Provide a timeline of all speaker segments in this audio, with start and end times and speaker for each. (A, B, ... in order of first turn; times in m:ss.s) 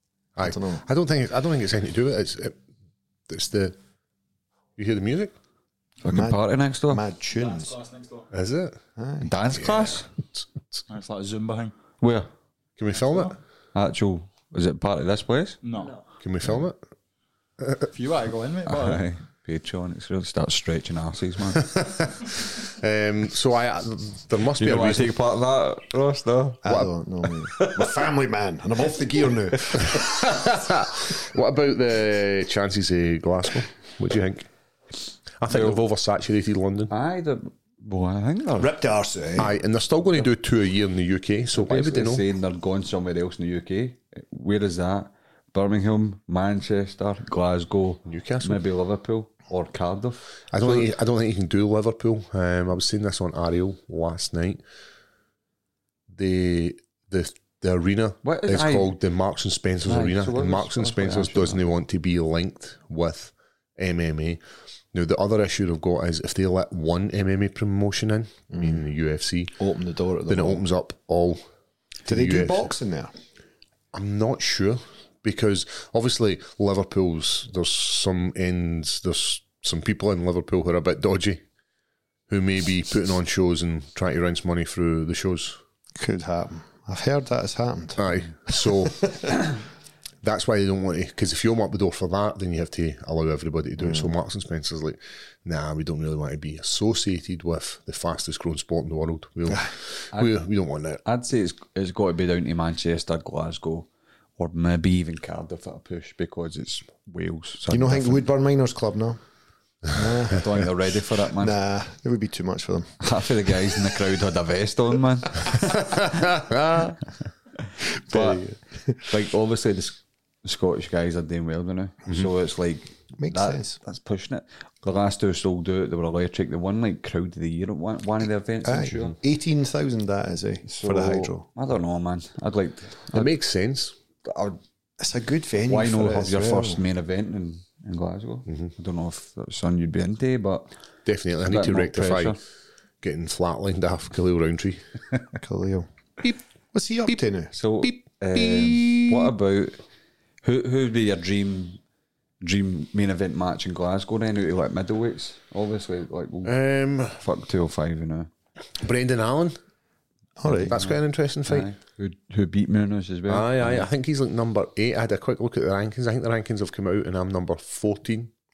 0:00.4-0:02.5 A
0:00.4-0:00.8 B
0:03.3-0:03.7 A
0:04.8-0:05.4 A
0:06.0-0:07.0 C
0:06.1-0:07.8 B
0:08.3-0:08.8 A
0:09.0-0:09.3 B
0:09.2-0:10.1 C
0:09.6-0:10.8 A
0:10.9-0:11.7 D
0:12.0-0:12.3 C
0:12.8-0:13.4 A
0:13.7-0:15.6 C
0:15.6-0:16.0 D
0:16.2-0:16.8 A
0:17.9-0:19.0 D
0:18.6-0:21.7 C
0:21.6-0:25.1 A
0:24.6-0:26.6 C
0:26.6-0:30.1 B
0:27.5-0:27.9 C
0:29.9-0:34.5 A
0:35.4-0:36.9 A
0:35.5-0:35.8 C
0:36.9-0:38.7 C
0:38.6-0:39.5 B
0:39.4-0:42.2 A
0:41.6-0:50.9 C
0:48.0-0:48.6 A
0:50.5-0:54.6 A
0:56.1-1:04.4 A
0:58.2-0:58.9 C
0:59.8-1:01.6 C
1:04.9-1:09.6 A
1:08.5-1:08.8 B
1:09.6-1:10.6 B
1:10.3-1:11.4 A
1:12.0-1:12.7 A
1:12.1-1:13.1 B
1:13.9-1:21.4 A
1:22.3-1:25.6 A
1:26.0-1:29.3 B
1:28.0-1:29.4 A
1:30.2-1:41.0 A
1:33.8-1:34.1 B
1:41.0-1:48.3 C
1:47.7-1:49.2 B
1:49.9-1:50.5 B
1:50.3-1:51.6 C
1:51.3-1:53.0 B
1:53.0-1:56.2 C
1:56.0-1:56.9 A
1:58.1-1:58.5 C
1:58.1-1:58.4 A
1:59.0-2:09.2 C
2:03.2-2:03.8 B
2:08.6-2:11.4 B
2:10.6-2:13.3 C
2:13.1-2:13.9 A
2:14.2-2:14.6 C
2:15.0-2:16.8 B
2:15.7-2:20.7 C
2:18.5-2:18.7 A
2:21.0-2:22.4 A
2:21.5-2:22.4 C
2:23.0-2:24.8 A
2:25.4-2:25.9 B
2:26.7-2:27.5 B
2:27.5-2:29.8 C
2:27.8-2:29.1 A
2:30.4-2:31.8 C
2:32.4-2:36.5 C
2:36.4-2:37.2 A
2:37.2-2:38.3 C
2:38.8-2:39.6 A
2:40.4-2:40.8 B
2:40.4-2:43.9 C
2:40.7-2:41.7 A
2:43.3-2:48.3 A